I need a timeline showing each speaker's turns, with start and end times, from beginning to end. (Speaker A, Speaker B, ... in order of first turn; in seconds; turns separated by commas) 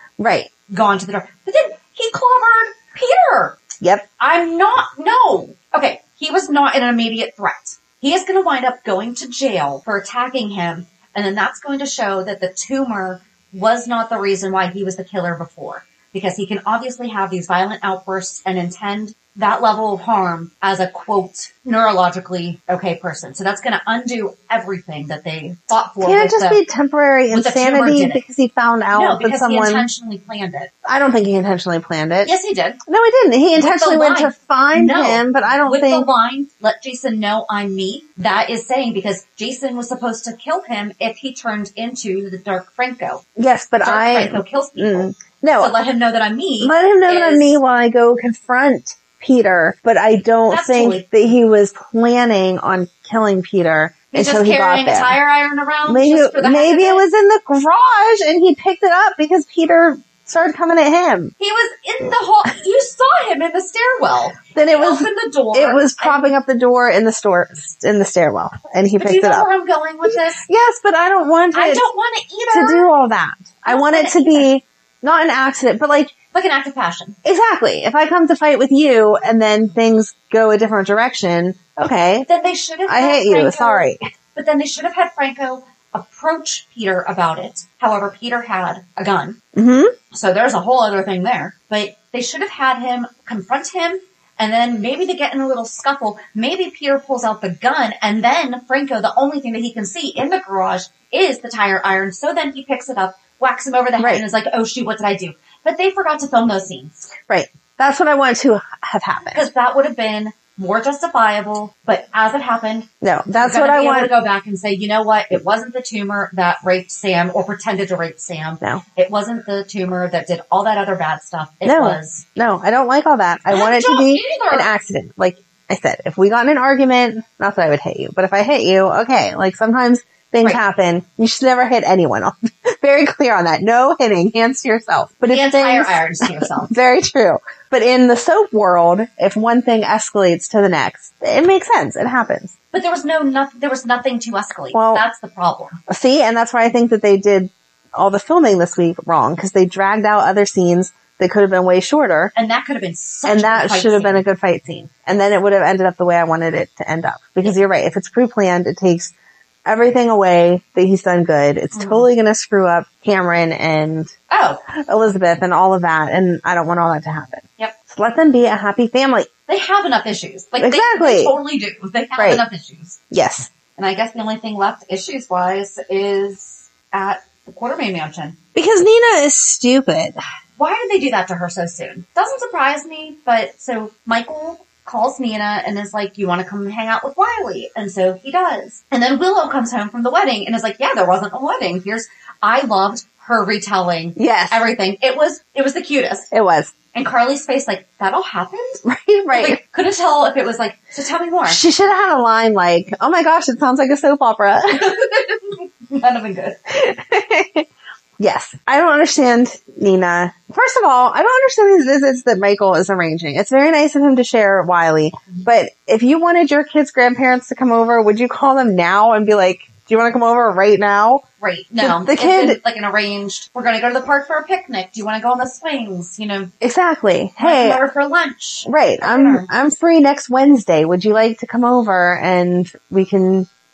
Speaker A: 0.2-0.5, Speaker B: 0.7-3.6, Speaker A: 3.8-4.1, Speaker B: 4.2-26.6, Speaker A: 26.0-29.9, Speaker B: 27.3-28.2, Speaker B: 28.9-30.7, Speaker A: 30.8-32.3, Speaker B: 32.2-32.8, Speaker A: 32.9-36.1, Speaker B: 33.5-43.2, Speaker A: 43.4-45.8, Speaker B: 43.8-47.5, Speaker A: 46.6-55.2, Speaker B: 50.5-51.0, Speaker B: 54.1-57.0, Speaker A: 55.9-61.3, Speaker B: 61.4-66.3, Speaker A: 64.5-69.5, Speaker B: 69.0-70.4, Speaker A: 70.0-71.8, Speaker B: 71.5-72.9, Speaker A: 72.5-76.1, Speaker B: 73.6-74.5, Speaker B: 76.3-77.2, Speaker A: 77.2-82.2, Speaker B: 82.2-89.4, Speaker A: 82.9-84.0, Speaker A: 89.5-89.9, Speaker B: 90.1-107.1, Speaker A: 104.0-104.2, Speaker A: 107.3-109.4, Speaker B: 109.3-122.2, Speaker A: 113.0-114.1, Speaker A: 121.6-142.5, Speaker B: 123.5-124.7, Speaker B: 135.3-136.7, Speaker B: 142.7-145.8, Speaker A: 144.7-145.0, Speaker A: 145.9-152.3, Speaker B: 152.3-154.2, Speaker A: 153.2-159.1, Speaker A: 159.6-164.1, Speaker B: 161.7-162.1, Speaker B: 164.3-164.6, Speaker A: 164.8-169.3, Speaker B: 169.5-173.0, Speaker A: 170.6-171.3, Speaker A: 172.2-172.4, Speaker A: 173.1-173.5, Speaker B: 173.8-178.3, Speaker A: 178.5-180.2, Speaker B: 180.6-196.3, Speaker A: 194.2-194.6, Speaker A: 196.3-196.7, Speaker B: 196.9-198.8, Speaker A: 198.8-199.6, Speaker B: 199.3-201.6, Speaker A: 201.4-204.9, Speaker B: 204.7-206.6, Speaker A: 206.7-207.7, Speaker A: 208.2-221.2, Speaker B: 221.4-226.5, Speaker A: 221.8-222.6, Speaker A: 226.6-227.8, Speaker B: 227.4-229.5, Speaker A: 228.7-233.5